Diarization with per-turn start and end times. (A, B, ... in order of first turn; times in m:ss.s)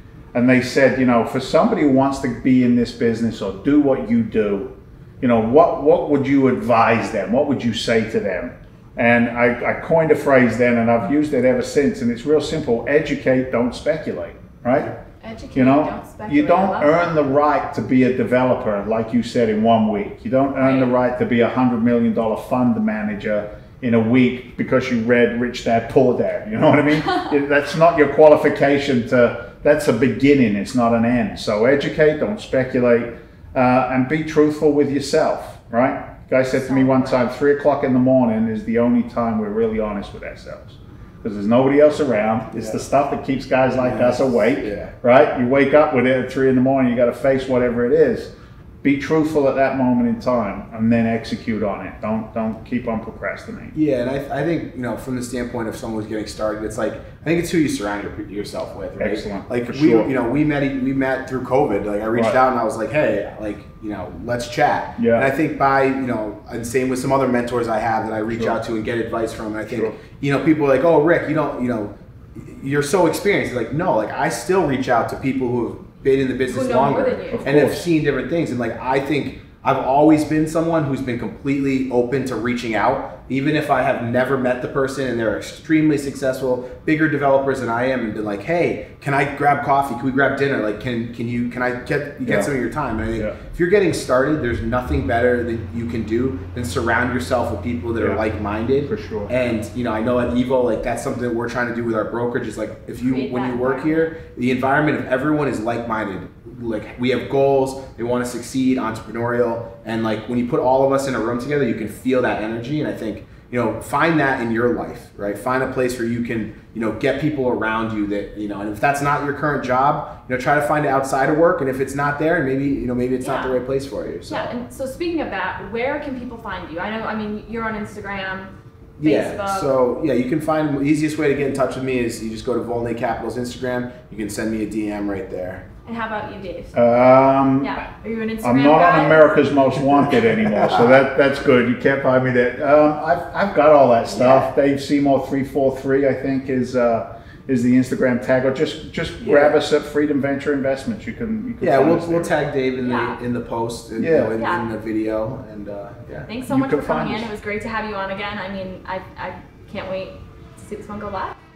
0:00.3-0:14.9 A
0:15.2-0:17.2 B
0:15.5-0:53.7 A
0:20.6-0:20.9 B
0:36.5-0:37.3 B
0:42.5-0:42.8 C
0:43.8-0:44.9 C
0:53.7-2:04.5 C
0:59.0-1:00.1 A
1:05.0-1:05.3 A
1:08.3-1:08.6 A
1:09.7-1:10.0 A
1:16.5-1:17.6 B
1:17.3-1:17.9 A
1:32.2-1:32.5 A
1:38.8-1:39.5 A
1:43.0-1:44.1 B
2:03.2-2:03.5 B
2:04.3-2:09.7 B
2:09.0-2:15.6 C
2:15.8-2:17.0 B
2:16.7-2:17.8 A
2:17.6-2:19.3 B
2:18.4-2:32.4 A
2:20.4-2:21.0 C
2:24.1-2:24.4 B
2:29.2-2:29.6 C
2:31.6-2:36.3 C
2:32.8-2:33.2 B
2:34.0-2:34.4 A
2:34.4-2:34.6 B
2:36.2-2:41.4 B
2:36.5-2:37.3 A